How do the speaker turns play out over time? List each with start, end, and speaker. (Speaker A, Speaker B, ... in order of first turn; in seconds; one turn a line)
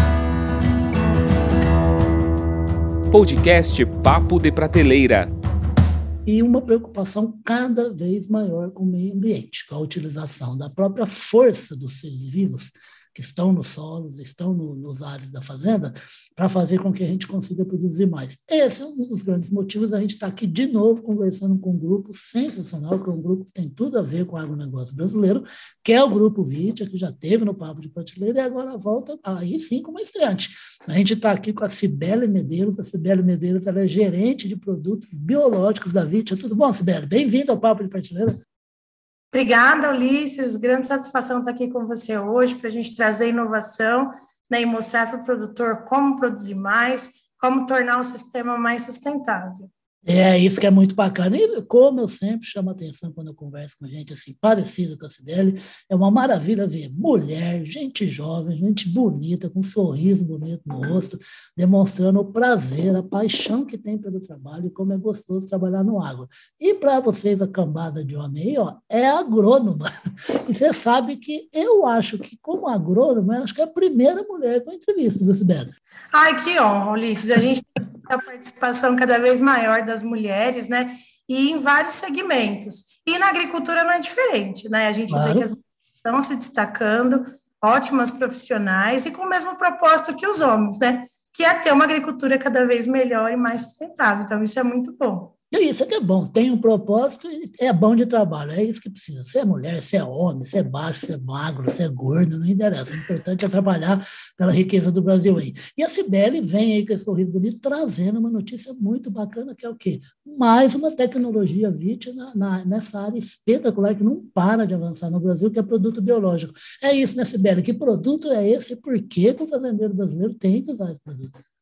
Speaker A: 3.1-5.3
Speaker B: 6.2-38.4
Speaker C: 39.3-49.7
Speaker B: 50.0-69.9
Speaker B: 70.5-75.7
Speaker C: 76.1-95.3
Speaker B: 85.1-85.5
Speaker B: 95.5-121.3